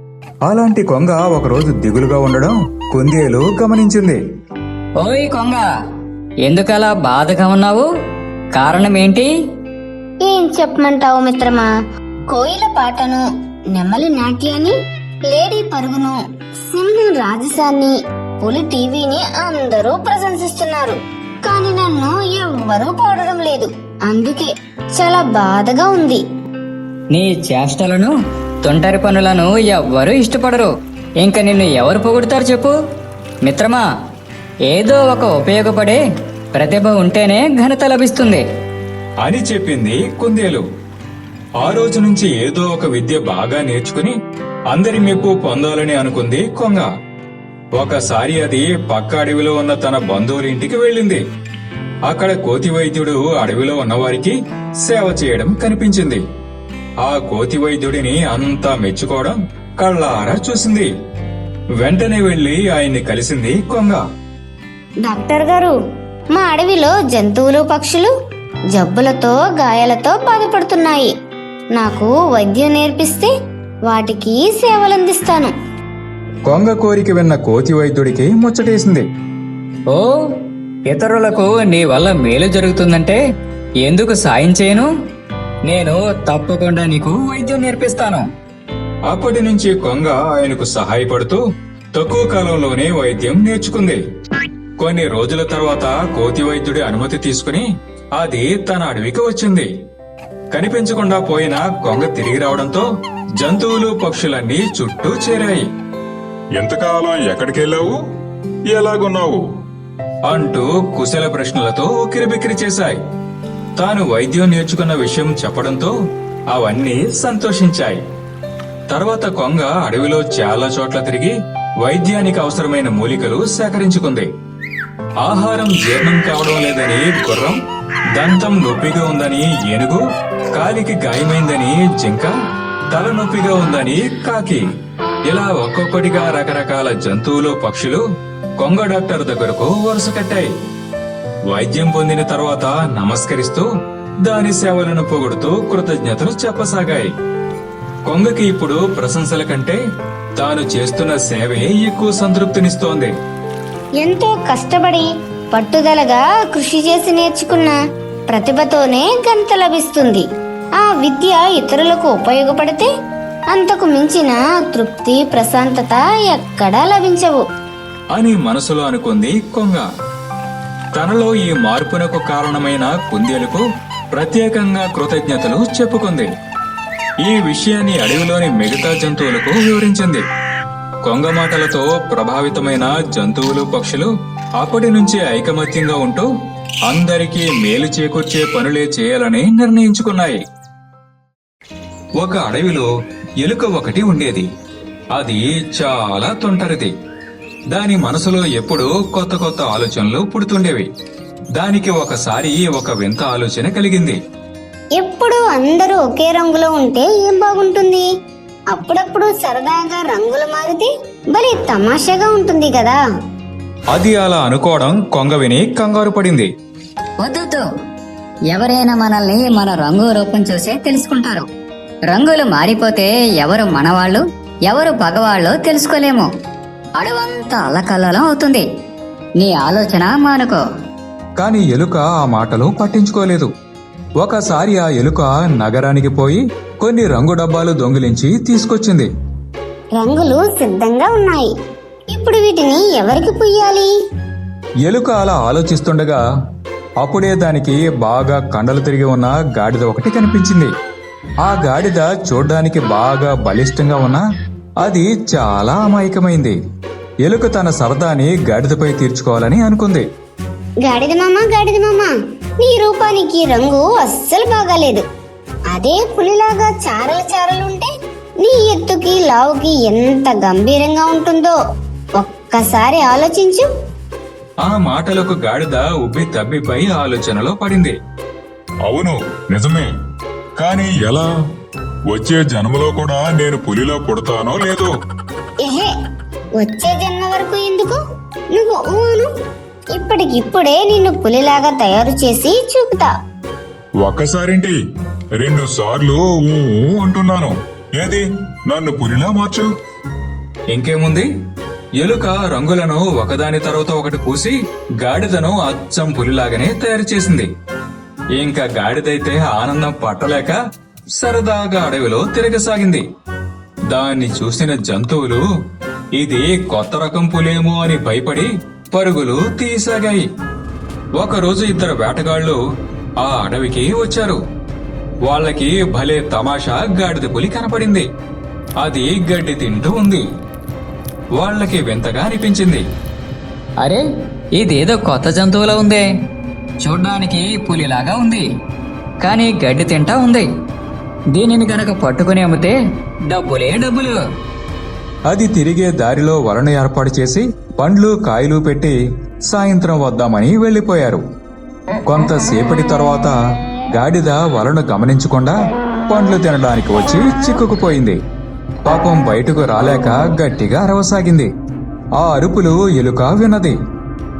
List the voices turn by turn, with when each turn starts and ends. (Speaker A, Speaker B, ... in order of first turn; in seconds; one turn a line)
Speaker A: 0.5-4.2
Speaker B: 5.0-5.7
Speaker B: 6.5-7.9
Speaker B: 8.5-9.3
Speaker C: 10.2-11.7
Speaker C: 12.3-14.7
Speaker C: 15.3-26.2
Speaker B: 27.1-32.7
Speaker B: 33.4-33.8
Speaker B: 34.7-36.0
Speaker B: 36.5-38.4
Speaker A: 39.2-40.6
Speaker A: 41.6-44.1
Speaker A: 44.7-46.9
Speaker A: 47.7-51.2
Speaker A: 52.1-56.2
Speaker A: 57.0-60.9
Speaker A: 61.8-64.0
Speaker C: 65.0-65.7
Speaker C: 66.3-68.1
Speaker C: 68.7-71.1
Speaker C: 71.7-73.3
Speaker C: 73.9-75.5
Speaker A: 76.5-79.0
Speaker B: 79.9-80.2
Speaker B: 80.9-83.2
Speaker B: 83.8-84.9
Speaker B: 85.7-88.2
Speaker A: 89.1-91.4
Speaker A: 91.9-94.0
Speaker A: 94.8-97.7
Speaker A: 98.2-99.7
Speaker A: 100.5-102.9
Speaker A: 103.4-105.7
Speaker D: 106.6-107.9
Speaker D: 108.7-109.4
Speaker A: 110.3-113.0
Speaker A: 113.8-115.9
Speaker A: 116.5-118.0
Speaker A: 118.9-124.3
Speaker A: 125.2-127.6
Speaker A: 128.1-130.0
Speaker A: 130.5-132.3
Speaker A: 132.9-134.6
Speaker A: 135.3-138.0
Speaker A: 138.6-140.5
Speaker A: 141.5-143.7
Speaker A: 144.2-147.1
Speaker A: 148.1-149.8
Speaker A: 150.4-153.1
Speaker C: 154.0-157.8
Speaker C: 158.3-160.2
Speaker C: 160.8-162.9
Speaker C: 163.5-167.4
Speaker A: 168.1-169.9
Speaker A: 170.9-176.3
Speaker A: 177.2-180.2
Speaker A: 181.0-186.3
Speaker A: 186.9-190.4
Speaker A: 192.2-192.9
Speaker A: 193.4-194.5
Speaker A: 195.1-196.9
Speaker A: 197.7-200.9
Speaker A: 201.6-204.2
Speaker C: 205.0-208.1
Speaker C: 208.7-213.0
Speaker A: 213.9-216.5
Speaker B: 217.2-217.7
Speaker B: 218.5-221.5
Speaker B: 222.1-226.3
Speaker B: 227.0-228.6
Speaker B: 229.4-230.6
Speaker A: 231.4-233.5
Speaker A: 234.2-239.1
Speaker C: 240.0-241.5
Speaker C: 242.1-243.9
Speaker A: 244.8-246.2
Speaker A: 247.0-250.7
Speaker A: 251.4-254.2
Speaker A: 254.8-256.6
Speaker A: 257.2-260.1
Speaker C: 260.8-265.0
Speaker C: 265.7-267.9
Speaker C: 268.4-271.6
Speaker C: 272.2-273.6
Speaker A: 274.6-277.9
Speaker D: 278.9-279.9
Speaker D: 280.6-281.3
Speaker D: 282.1-284.9
Speaker C: 285.6-285.9
Speaker C: 286.6-288.0
Speaker C: 288.5-289.3
Speaker C: 289.9-293.1
Speaker D: 294.0-294.8
Speaker D: 295.4-297.5
Speaker D: 298.0-299.6
Speaker A: 300.7-301.3
Speaker A: 302.0-307.5
Speaker A: 308.4-310.6
Speaker A: 311.1-313.0
Speaker A: 313.9-315.4
Speaker A: 316.1-320.2
Speaker A: 321.2-322.6
Speaker A: 323.2-324.4
Speaker A: 325.2-328.1
Speaker A: 328.8-330.2
Speaker A: 331.4-332.8
Speaker B: 334.5-336.1
Speaker B: 336.8-338.4
Speaker B: 339.2-340.5
Speaker B: 341.3-342.8
Speaker B: 343.3-344.2
Speaker A: 345.3-349.0
Speaker A: 349.5-351.2
Speaker A: 352.1-353.4
Speaker A: 353.9-355.6
Speaker A: 356.1-358.2
Speaker A: 358.9-361.5
Speaker A: 362.2-363.8